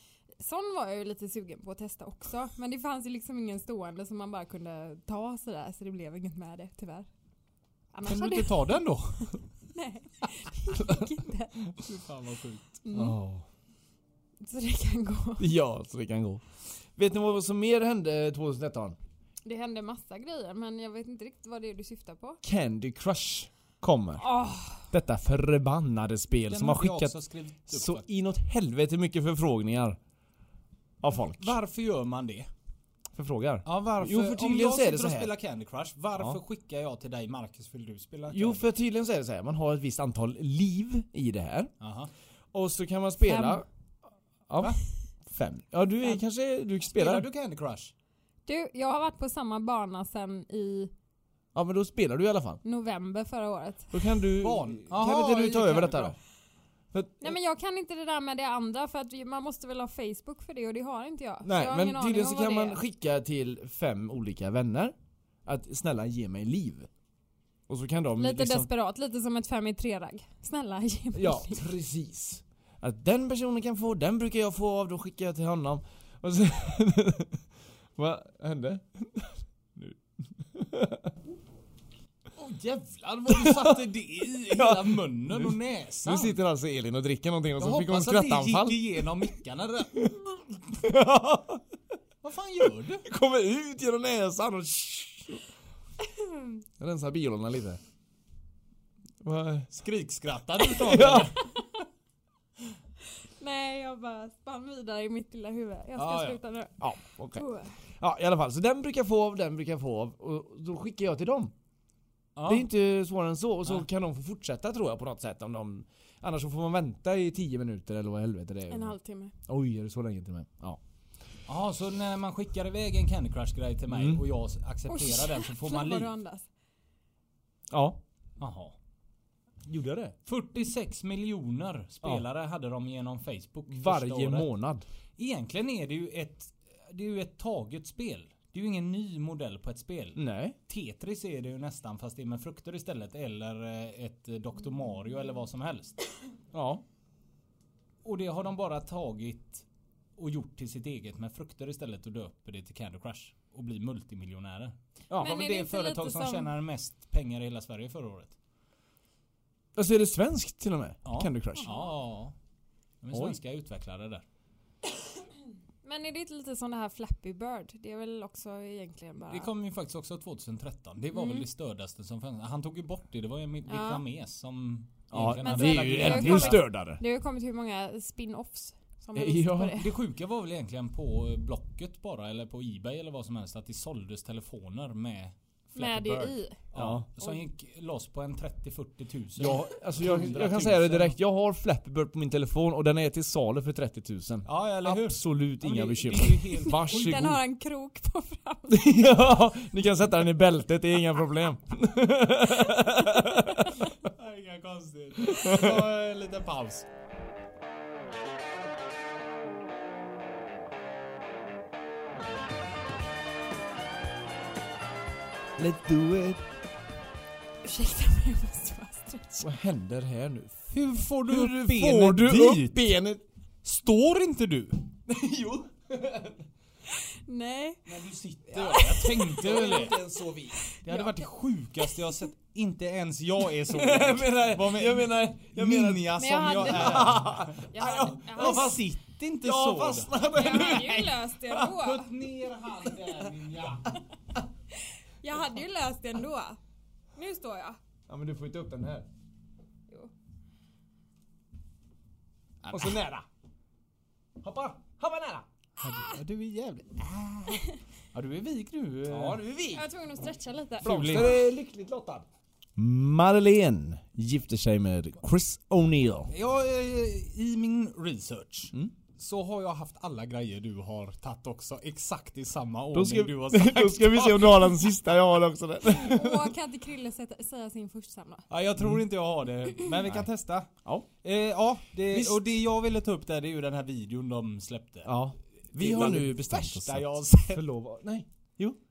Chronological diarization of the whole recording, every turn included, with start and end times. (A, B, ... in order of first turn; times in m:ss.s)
0:00.4-0:07.1 A
0:07.9-0:11.6 A
0:08.1-0:09.4 B
0:11.7-0:12.8 B
0:12.8-0:13.2 A
0:12.9-0:13.4 C
0:14.4-0:15.5 A
0:15.4-0:19.0 C
0:19.4-0:22.4 A
0:22.4-0:24.3 C
0:24.2-0:24.8 A
0:24.8-0:27.1 C
0:26.5-0:28.0 B
0:27.7-0:30.0 C
0:31.0-0:31.6 C
0:31.2-0:32.5 B
0:33.1-0:35.3 C
0:33.6-0:38.6 B
0:38.3-0:41.7 C
0:41.8-0:42.1 B
0:42.5-0:43.6 C
0:43.2-0:43.6 A
0:44.5-0:47.3 C
0:46.9-0:47.9 B
0:48.4-0:50.9 A
0:51.6-0:52.6 C
0:52.6-0:54.1 A
0:53.9-0:56.2 C
0:54.4-0:56.1 B
0:56.9-0:57.4 C
0:57.2-1:02.8 A
1:01.4-1:06.9 C
1:07.7-1:08.7 C
1:08.2-1:11.7 A
1:11.1-1:17.4 C
1:18.0-1:21.1 C
1:22.4-1:26.4 B
1:23.3-1:23.8 C
1:24.5-1:29.3 C
1:27.6-1:30.2 B
1:30.7-1:31.6 C
1:32.2-1:33.0 B
1:33.0-1:35.4 C
1:36.8-1:37.8 C
1:39.2-1:39.7 C
1:39.7-1:41.5 B
1:40.7-1:41.3 C
1:43.2-1:47.8 A
1:46.0-1:46.4 B
1:46.8-1:51.5 C
1:52.4-1:52.7 B
1:52.4-1:58.9 C
1:58.7-1:59.3 A
1:59.5-2:00.8 C
2:01.5-2:06.1 B
2:03.9-2:04.2 C
2:04.9-2:06.5 A
2:07.7-2:08.0 C
2:08.4-2:08.7 B
2:09.6-2:10.1 C
2:10.2-2:14.5 B
2:13.7-2:14.8 C
2:15.2-2:26.0 B
2:20.2-2:20.6 C
2:26.5-2:26.8 C
2:28.0-2:29.6 B
2:30.2-2:38.4 B
2:35.2-2:36.5 A
2:39.8-2:41.7 C
2:41.0-2:42.3 B
2:41.6-2:42.0 A
2:43.0-2:44.2 B
2:43.1-2:43.4 C
2:45.8-2:49.5 A
2:49.3-2:56.6 B
2:51.1-2:51.4 A
2:53.7-2:54.0 A
2:55.1-2:57.0 C
2:55.4-2:59.9 A
2:59.1-2:59.8 C
2:59.7-3:11.2 B
3:05.7-3:06.6 A
3:06.7-3:07.1 C
3:09.4-3:17.4 C
3:14.4-3:17.2 B
3:16.5-3:18.9 A
3:18.7-3:23.8 C
3:23.7-3:26.9 B
3:25.3-3:25.9 C
3:35.6-3:36.4 C
3:37.6-3:39.5 A
3:39.4-3:40.7 C
3:40.7-3:42.9 B
3:41.2-3:43.2 C
3:43.6-3:44.8 B
3:45.1-3:46.4 C
3:46.9-3:47.9 A
3:47.9-3:50.0 B
3:48.5-3:49.9 A
3:49.3-3:50.6 C
3:50.6-3:51.1 A
3:50.8-4:01.0 B
3:53.7-3:58.9 C
3:56.1-3:58.8 A
3:59.4-4:01.7 C
4:00.3-4:02.1 A
4:01.7-4:03.9 B
4:04.8-4:06.6 A
4:07.2-4:07.8 A
4:08.1-4:09.1 C
4:12.6-4:13.0 B
4:12.7-4:13.2 C
4:14.4-4:15.4 C
4:15.8-4:19.4 B
4:15.8-4:16.2 A
4:17.5-4:17.8 A
4:19.1-4:19.9 C
4:19.7-4:21.4 A
4:20.8-4:21.4 B
4:20.8-4:22.2 C
4:22.8-4:26.3 C
4:26.3-4:34.9 B
4:32.9-4:36.5 C
4:35.8-4:38.5 A
4:38.5-4:40.7 B
4:41.2-4:45.1 B
4:42.1-4:42.4 C
4:45.0-4:48.8 C
4:45.7-4:47.6 B